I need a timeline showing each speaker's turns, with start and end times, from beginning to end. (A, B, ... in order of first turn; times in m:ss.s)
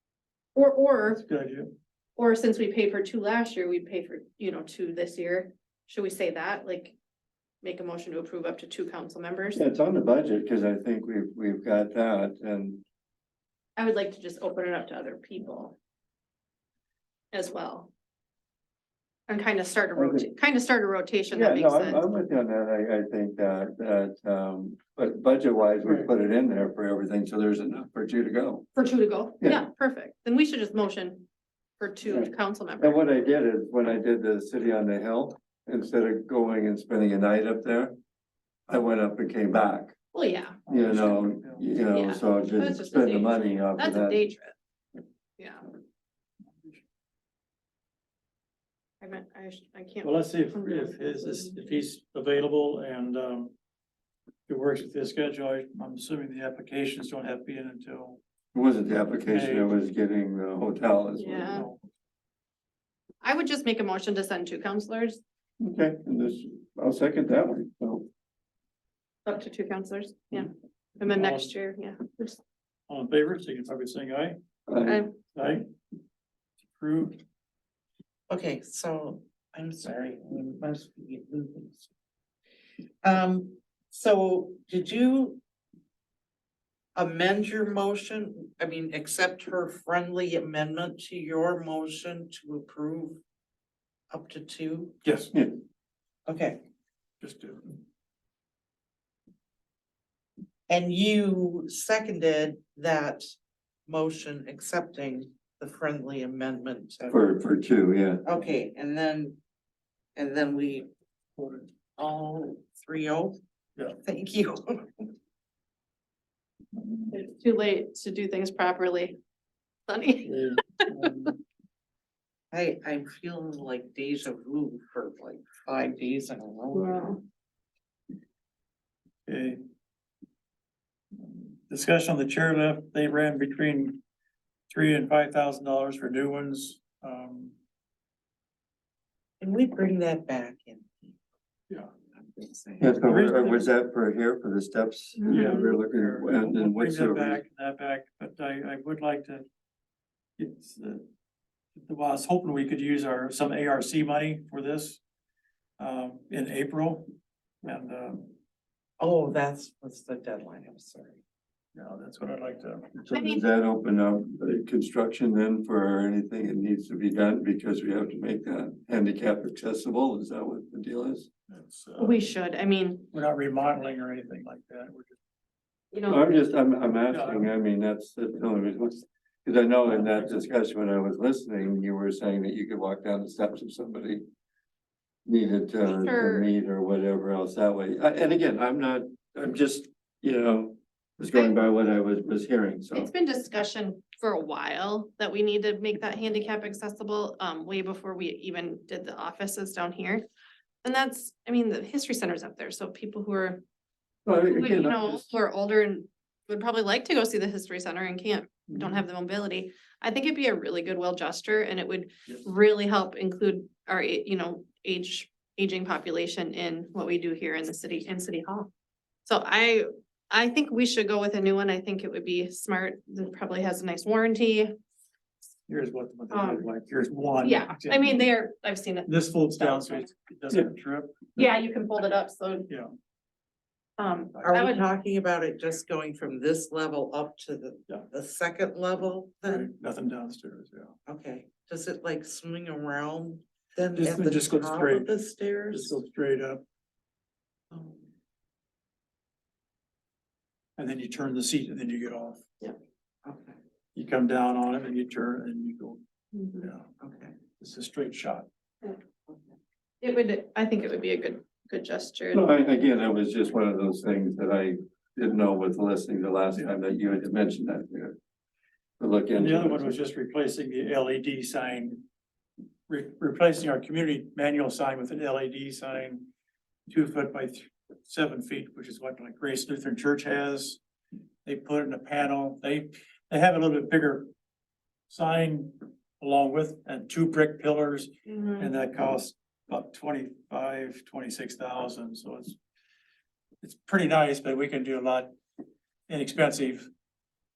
0:00.6-0:01.2 A
0:01.1-0:01.7 B
0:02.2-0:07.0 A
0:07.6-0:09.6 A
0:09.6-0:12.8 C
0:13.8-0:15.8 A
0:17.3-0:17.9 A
0:19.3-0:22.1 A
0:20.0-0:20.3 C
0:21.3-0:28.7 C
0:25.8-0:26.1 B
0:28.8-0:31.3 A
0:29.4-0:29.7 C
0:31.8-0:33.0 A
0:32.1-0:38.0 C
0:38.7-0:40.0 C
0:40.1-0:40.6 A
0:40.7-0:41.6 B
0:40.7-0:44.2 C
0:41.9-0:44.6 A
0:45.4-0:45.7 A
0:49.0-0:51.6 A
0:50.0-0:53.5 B
0:54.5-0:58.2 B
0:58.5-1:01.6 C
0:59.3-0:59.7 B
1:01.2-1:01.7 A
1:01.5-1:01.8 B
1:03.2-1:05.2 A
1:05.6-1:08.1 C
1:09.3-1:12.4 A
1:11.0-1:11.5 B
1:12.9-1:14.4 B
1:14.7-1:15.0 C
1:14.8-1:15.2 A
1:15.4-1:15.7 B
1:16.7-1:17.2 B
1:18.3-1:21.9 D
1:23.0-1:25.4 D
1:27.0-1:33.2 D
1:34.1-1:35.0 D
1:35.0-1:35.3 B
1:35.3-1:35.6 C
1:36.3-1:36.6 D
1:37.2-1:37.8 B
1:40.7-1:43.3 D
1:43.9-1:47.2 D
1:47.1-1:48.2 C
1:48.2-1:49.4 D
1:50.2-1:50.9 D
1:51.4-1:51.7 B
1:52.0-1:53.4 D
1:54.0-1:55.1 D
1:56.8-1:57.1 B
1:57.1-1:59.2 A
1:59.9-2:00.8 A
2:00.2-2:01.4 B
2:02.5-2:07.2 D
2:06.7-2:07.2 A
2:09.3-2:09.6 B
2:11.2-2:14.0 B
2:14.7-2:17.6 B
2:19.4-2:21.1 D
2:22.2-2:23.1 D
2:22.8-2:27.4 C
2:23.0-2:23.7 B
2:25.2-2:25.6 A
2:25.3-2:29.5 B
2:30.4-2:31.1 B
2:31.8-2:35.0 B
2:35.8-2:37.1 B
2:37.6-2:38.3 B
2:39.0-2:41.2 D
2:41.8-2:43.1 B
2:43.1-2:51.3 C
2:43.1-2:43.4 A
2:51.5-2:52.2 B
2:52.0-2:53.1 A
2:53.1-2:55.2 B
2:55.9-2:56.4 A
2:56.1-3:04.2 C
2:57.1-2:57.5 B
2:59.9-3:00.3 B
3:05.3-3:13.1 C
3:05.8-3:06.5 A
3:12.9-3:20.3 A
3:20.8-3:23.6 A
3:24.3-3:25.2 C
3:24.4-3:38.7 A
3:28.7-3:29.0 B
3:39.2-3:44.8 A
3:45.7-3:48.3 B
3:46.3-3:46.7 A
3:47.4-3:50.1 A
3:49.1-3:51.5 B
3:51.4-3:52.7 A
3:54.0-3:54.8 A
3:54.4-3:59.7 D
3:59.4-4:00.9 B
4:01.1-4:06.0 D
4:04.0-4:05.1 B
4:05.7-4:06.6 B
4:07.7-4:08.0 D
4:10.8-4:12.5 B
4:13.2-4:13.6 D
4:14.0-4:16.0 B
4:16.3-4:16.7 A
4:16.6-4:16.9 B
4:17.0-4:17.4 D
4:17.6-4:18.5 B
4:20.0-4:22.5 A
4:22.3-4:28.2 C
4:29.0-4:30.0 C
4:29.3-4:32.0 B
4:32.9-4:36.3 B
4:36.9-4:40.8 B
4:41.4-4:44.3 B
4:45.1-4:52.6 B
4:48.3-4:48.7 A
4:53.6-4:55.3 B
4:56.1-4:56.9 B